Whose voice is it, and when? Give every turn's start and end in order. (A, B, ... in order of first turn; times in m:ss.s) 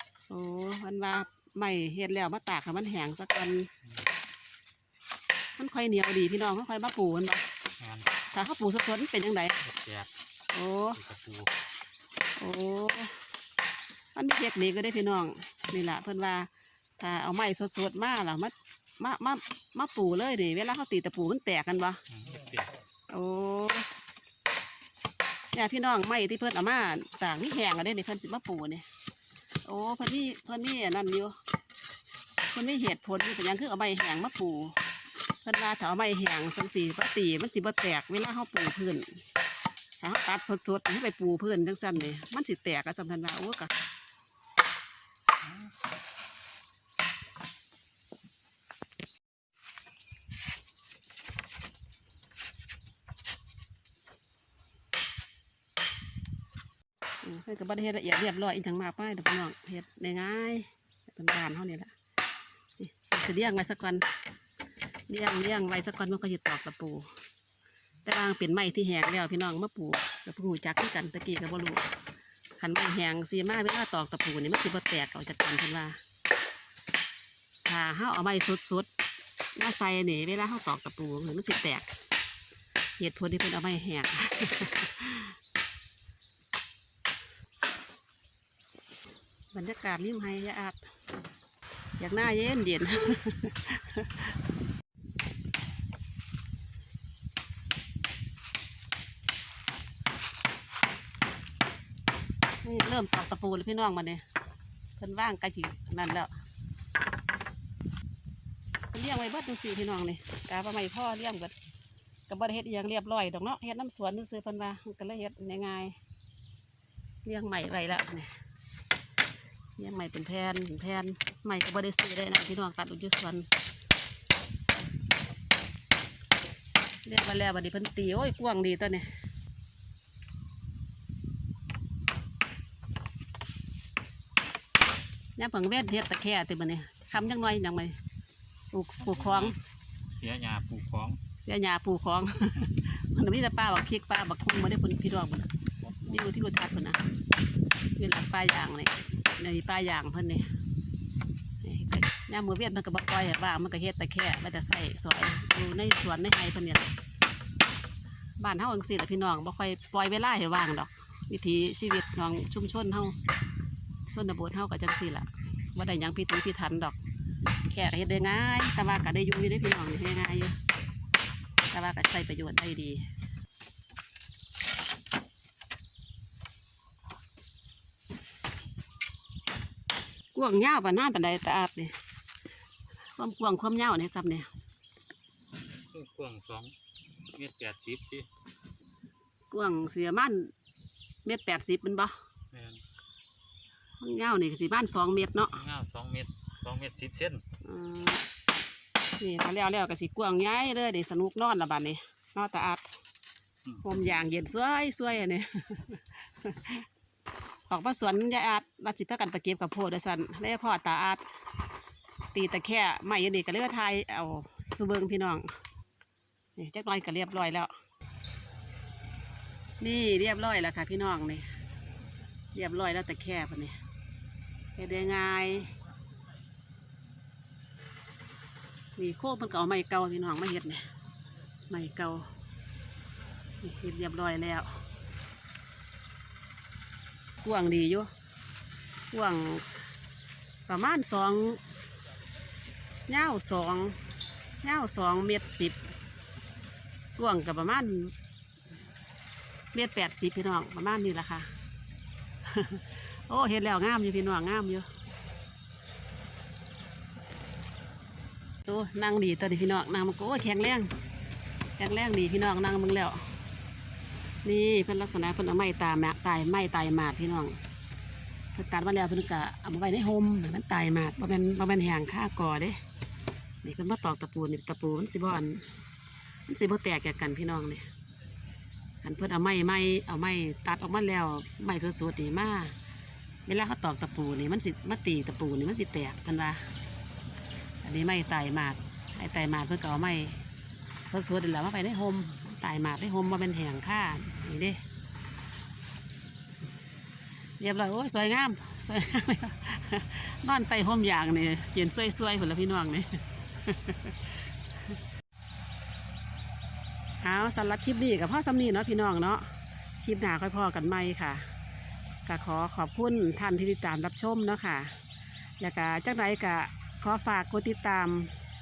0:00.3-0:03.7 A
0:05.6-0:07.4 A
0:07.8-0:08.1 B
0:08.3-0:09.6 A
0:09.6-0:10.1 B
0:10.5-0:11.0 A
0:10.9-0:11.5 B
0:12.4-0:13.2 A
0:14.1-0:22.0 A
0:22.1-0:22.7 B
0:23.1-0:23.9 A
0:25.5-0:28.8 A
0:29.6-0:31.4 A
0:32.4-0:34.8 A
0:35.4-0:39.2 A
0:40.0-0:43.7 A
0:57.2-1:01.9 A
1:02.8-1:04.0 A
1:05.1-1:07.1 A
1:08.0-1:11.9 A
1:12.6-1:16.0 A
1:17.6-1:18.9 A
1:19.6-1:21.9 A
1:23.0-1:25.4 A
1:29.5-1:30.9 A
1:32.0-1:34.3 A
1:42.6-1:44.2 A
1:45.0-1:46.3 A
1:48.9-1:51.5 A
1:52.3-1:56.0 A
1:57.2-1:58.3 A
1:59.8-2:03.5 A
2:07.0-2:09.1 A
2:15.4-2:18.0 A
2:18.7-2:19.6 A
2:19.0-2:19.6 B
2:20.2-2:21.2 B
2:21.4-2:25.5 A
2:26.0-2:27.0 A
2:28.0-2:30.5 A
2:31.6-2:36.9 A
2:38.4-2:43.2 A
2:44.1-2:47.0 A
2:47.6-2:50.6 A
2:51.7-2:53.0 A
3:00.3-3:02.0 A
3:03.2-3:04.5 A
3:05.9-3:06.7 B
3:07.3-3:08.3 B
3:09.5-3:10.5 A
3:11.2-3:12.2 A
3:12.5-3:12.8 B
3:14.0-3:15.6 A
3:15.5-3:17.4 B
3:17.6-3:18.2 A
3:19.2-3:23.0 A
3:23.8-3:26.8 A
3:27.7-3:31.3 A
3:32.3-3:35.5 A
3:36.6-3:37.7 A
3:39.8-3:41.5 A
3:42.5-3:43.8 A
3:44.8-3:45.8 A
3:49.0-3:50.9 A
3:51.7-3:52.3 A
3:53.6-3:54.8 A
3:57.4-3:58.1 A
3:59.1-3:59.9 A
4:00.7-4:01.6 A
4:03.1-4:04.0 A
4:04.6-4:05.8 A
4:07.2-4:08.1 A
4:09.7-4:11.5 A
4:12.4-4:14.9 A
4:18.6-4:20.9 A
4:21.8-4:23.3 A
4:24.4-4:27.6 A
4:28.5-4:32.8 A
4:33.6-4:35.7 A
4:36.5-4:37.9 A
4:39.0-4:42.7 A
4:43.4-4:46.6 A
4:47.8-4:50.4 A
4:51.0-4:54.8 A
4:57.6-5:04.4 A
5:07.2-5:11.5 A
5:12.2-5:15.0 A
5:15.6-5:18.3 A